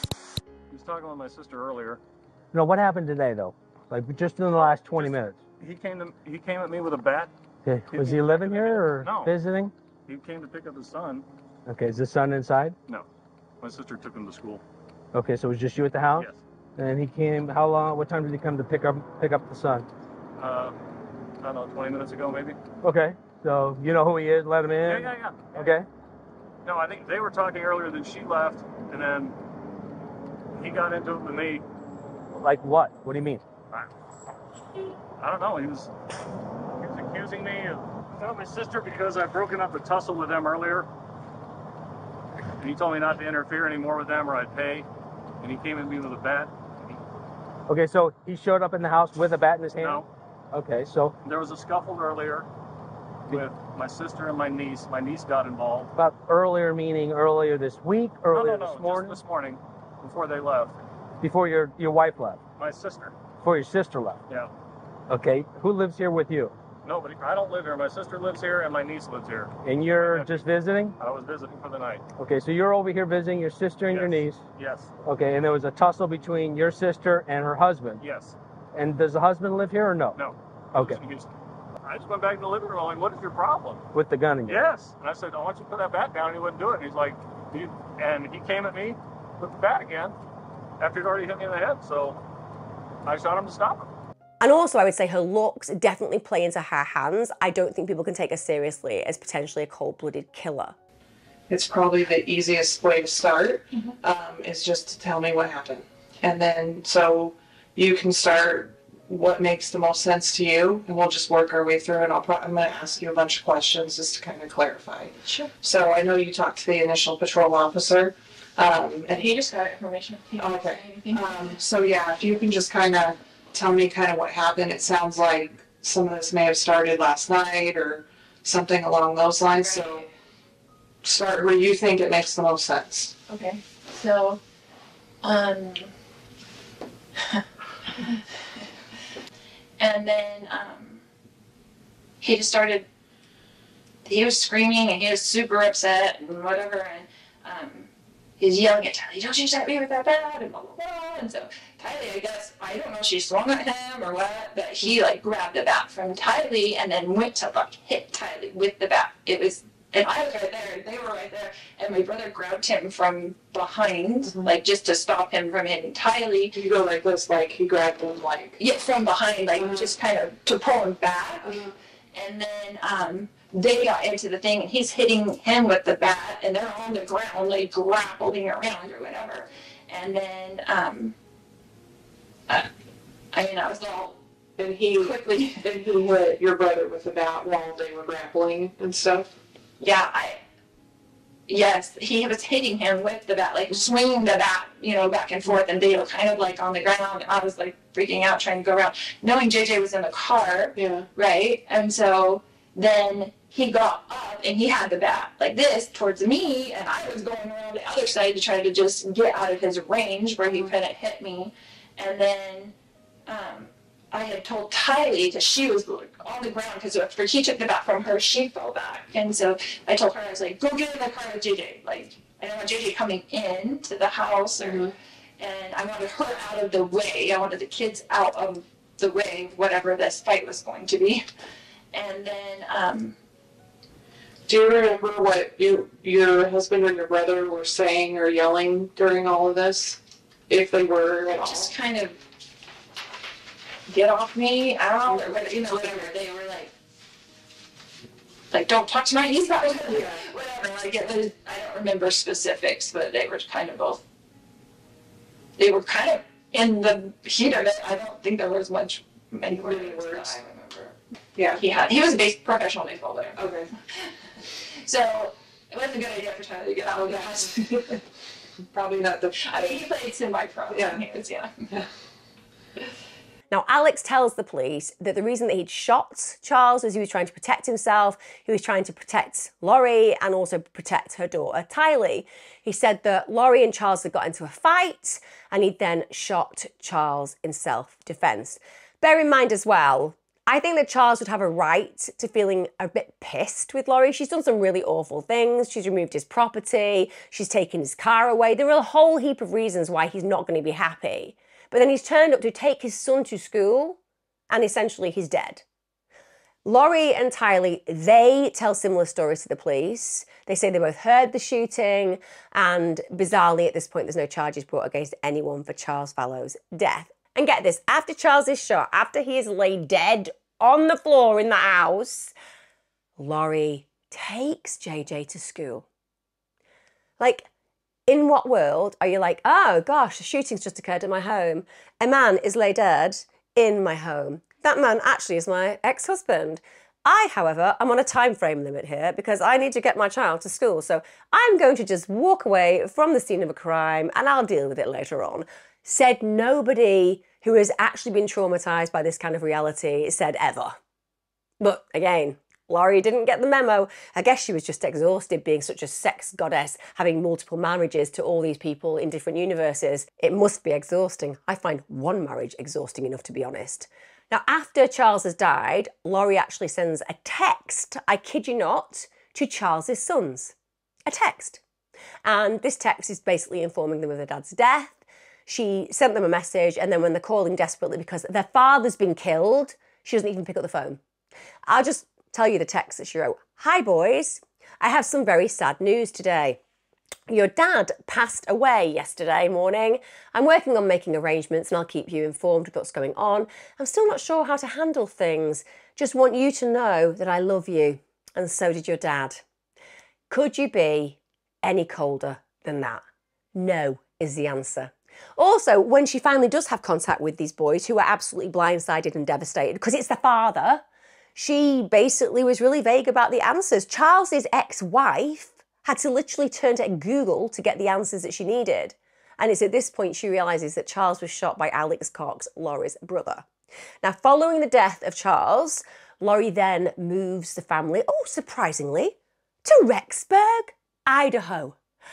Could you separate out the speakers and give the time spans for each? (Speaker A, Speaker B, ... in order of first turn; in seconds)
Speaker A: 0.7-2.0, 4.5-7.3, 7.9-9.3, 10.1-11.2, 13.6-14.6, 16.1-16.4, 20.4-20.8, 21.4-22.6, 24.8-25.8, 26.6-29.4, 30.5-31.6, 35.2-35.9, 36.8-40.9, 42.6-44.9, 45.4-47.0, 49.8-50.1, 51.2-52.5, 53.3-55.9, 58.3-60.8, 62.6-63.2, 66.8-70.4, 71.0-72.0, 73.9-74.9, 78.0-78.3, 80.2-83.9, 84.5-90.2, 90.8-92.2, 93.0-93.9
Speaker B: 2.5-5.4, 7.6-9.7, 11.7-12.8, 15.1-19.9, 22.8-25.9, 32.3-33.4, 47.7-51.1, 56.0-59.2, 61.2-62.4, 63.4-64.2, 65.1-66.5, 69.6-70.9, 72.2-74.4, 75.0-78.0, 78.7-80.2, 80.7-81.0, 83.9-84.7
Speaker C: 94.4-100.8, 273.5-304.0, 304.5-305.6, 306.6-322.3, 323.2-325.8, 327.2-327.5, 328.1-350.8, 351.6-370.5, 371.1-371.6, 372.2-381.0, 381.7-386.6, 387.3-399.4, 400.3-403.0, 403.5-410.8, 411.3-423.4, 424.0-431.8
Speaker D: 101.5-119.5, 120.4-130.1, 131.0-133.2, 164.2-164.5, 166.5-168.6, 169.6-170.0, 171.5-171.7, 184.6-189.3, 200.7-201.1, 224.6-224.9, 234.5-241.7, 245.0-246.2, 248.6-250.3, 259.5-260.4, 261.4-261.6, 263.3-263.7, 266.8-268.0, 268.7-269.9, 270.7-271.0
Speaker E: 119.1-121.5, 129.6-130.1, 133.3-134.4, 135.2-135.9, 137.9-138.2, 139.8-141.0, 142.2-142.8, 144.0-147.9, 148.4-166.5, 168.6-181.1, 183.3-184.2, 184.9-185.6, 189.8-190.4, 191.5-212.7, 213.2-231.2, 231.9-233.1, 241.3-242.2, 243.9-246.7, 248.5-254.0, 255.6-260.9, 261.5-263.6, 264.8-268.0, 269.4-271.5